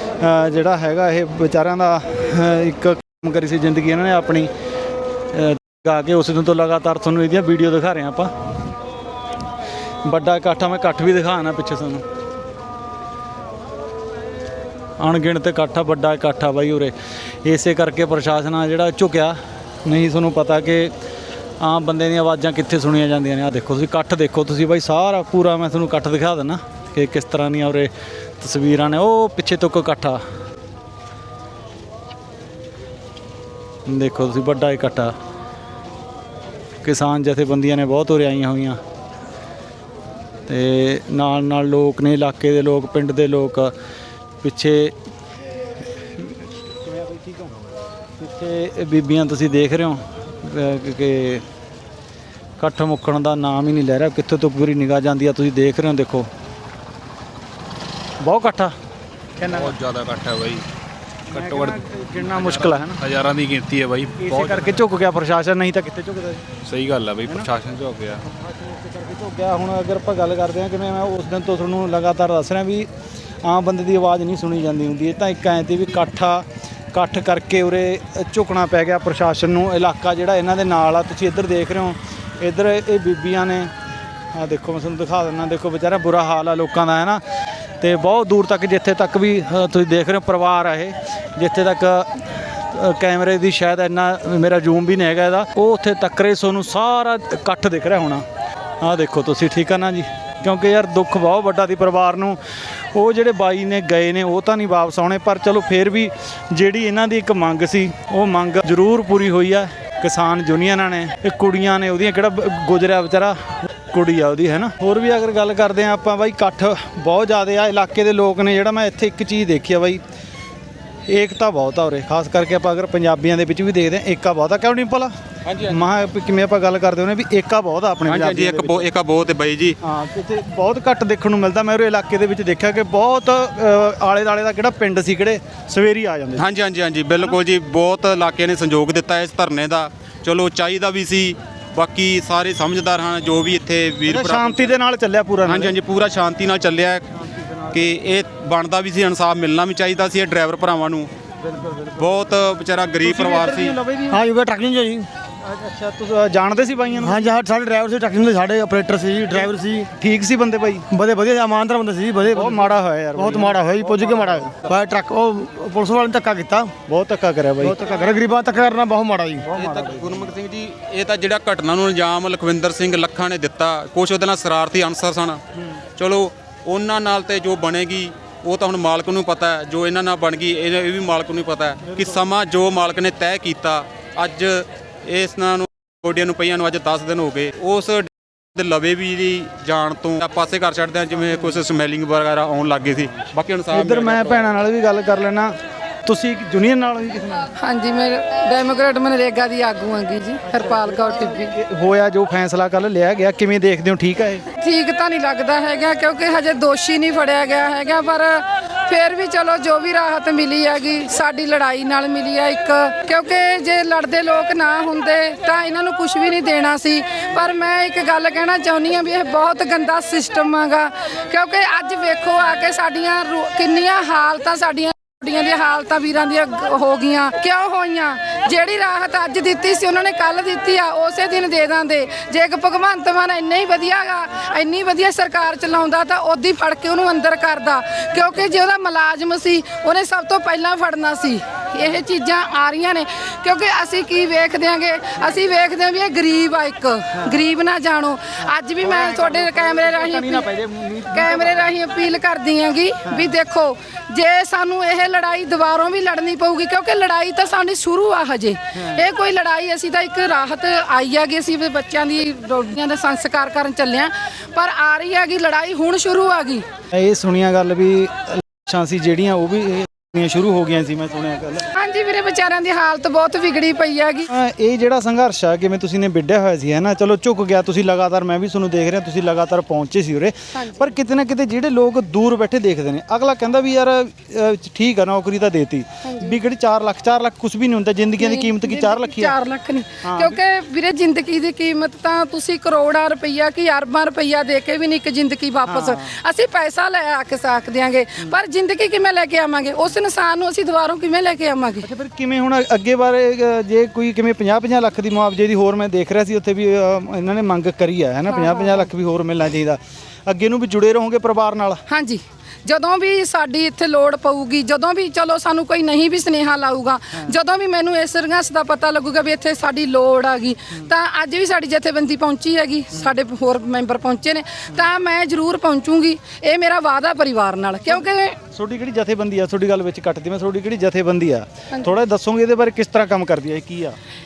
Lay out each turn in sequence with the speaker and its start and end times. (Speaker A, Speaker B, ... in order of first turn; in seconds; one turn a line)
Speaker A: 0.2-4.5
Speaker A: 5.3-8.3
Speaker A: 10.0-12.0
Speaker A: 15.0-16.9
Speaker A: 17.4-20.9
Speaker A: 21.6-30.2
Speaker A: 33.9-35.1
Speaker A: 36.8-38.8
Speaker A: 40.5-43.7
Speaker A: 44.4-44.9
Speaker A: 46.2-47.5
Speaker A: 48.2-51.4
Speaker A: 52.6-56.3
Speaker A: 58.2-58.7
Speaker A: 59.4-59.8
Speaker B: 59.5-60.6
Speaker A: 61.3-63.0
Speaker B: 61.3-64.8
Speaker A: 64.2-66.4
Speaker B: 66.7-68.2
Speaker A: 68.2-72.9
Speaker A: 73.4-83.7
Speaker A: 84.3-87.2
Speaker A: 87.8-98.2
Speaker A: 98.8-102.4
Speaker A: 102.9-120.0
Speaker A: 121.1-125.1
Speaker C: 125.4-125.8
Speaker A: 125.7-128.9
Speaker C: 128.1-129.8
Speaker A: 129.8-136.4
Speaker C: 136.4-144.8
Speaker A: 144.1-145.7
Speaker C: 145.4-147.0
Speaker A: 147.2-147.9
Speaker C: 147.7-151.1
Speaker A: 151.4-152.1
Speaker C: 152.0-153.8
Speaker A: 153.0-154.2
Speaker D: 154.1-155.1
Speaker A: 155.4-157.3
Speaker D: 157.0-159.9
Speaker A: 159.3-160.9
Speaker D: 160.9-166.7
Speaker A: 162.3-164.6
Speaker A: 166.9-167.8
Speaker D: 167.6-169.4
Speaker A: 169.4-170.3
Speaker C: 169.5-175.4
Speaker C: 176.0-194.5
Speaker A: 193.7-197.5
Speaker E: 197.6-201.5
Speaker A: 200.4-204.4
Speaker E: 204.5-250.5
Speaker A: 248.8-251.7
Speaker E: 251.1-266.6
Speaker A: 253.1-253.3
Speaker A: 266.9-271.7
Speaker E: 271.7-274.3
Speaker A: 274.3-289.4
Speaker E: 280.5-280.9
Speaker E: 286.0-286.4
Speaker E: 288.2-301.9
Speaker A: 290.0-290.4
Speaker A: 295.7-296.1
Speaker A: 301.8-311.8
Speaker E: 308.3-308.9
Speaker E: 311.9-328.4
Speaker A: 328.5-334.0